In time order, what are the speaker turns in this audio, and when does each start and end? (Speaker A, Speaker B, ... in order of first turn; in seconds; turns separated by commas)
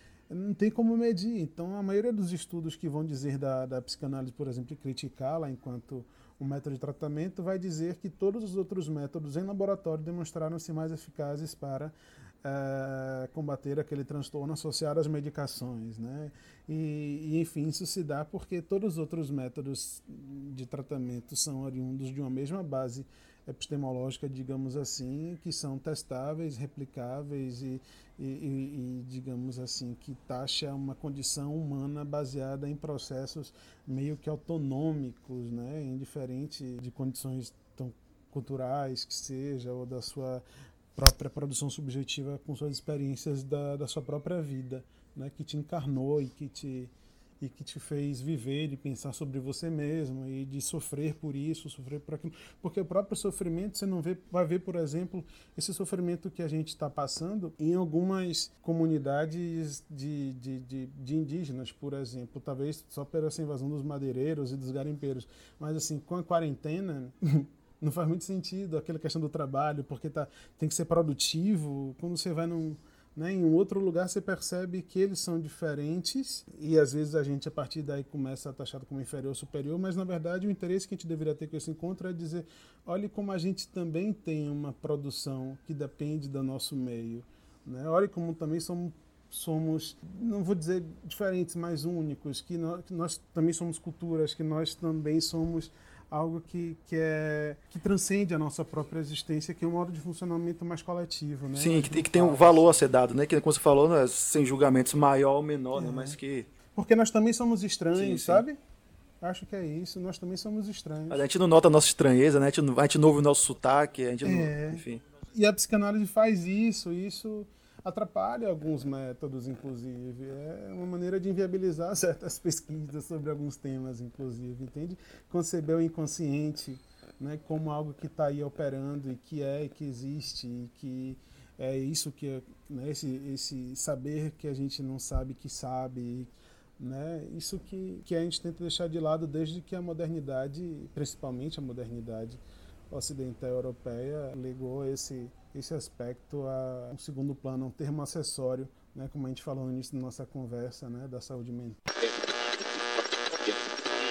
Speaker A: 0.3-102.7, Speaker B: 101.5-106.5, Speaker A: 105.8-106.2, Speaker A: 106.8-108.6, Speaker B: 107.9-108.5, Speaker A: 109.2-111.2, Speaker B: 111.1-115.0, Speaker A: 114.2-151.8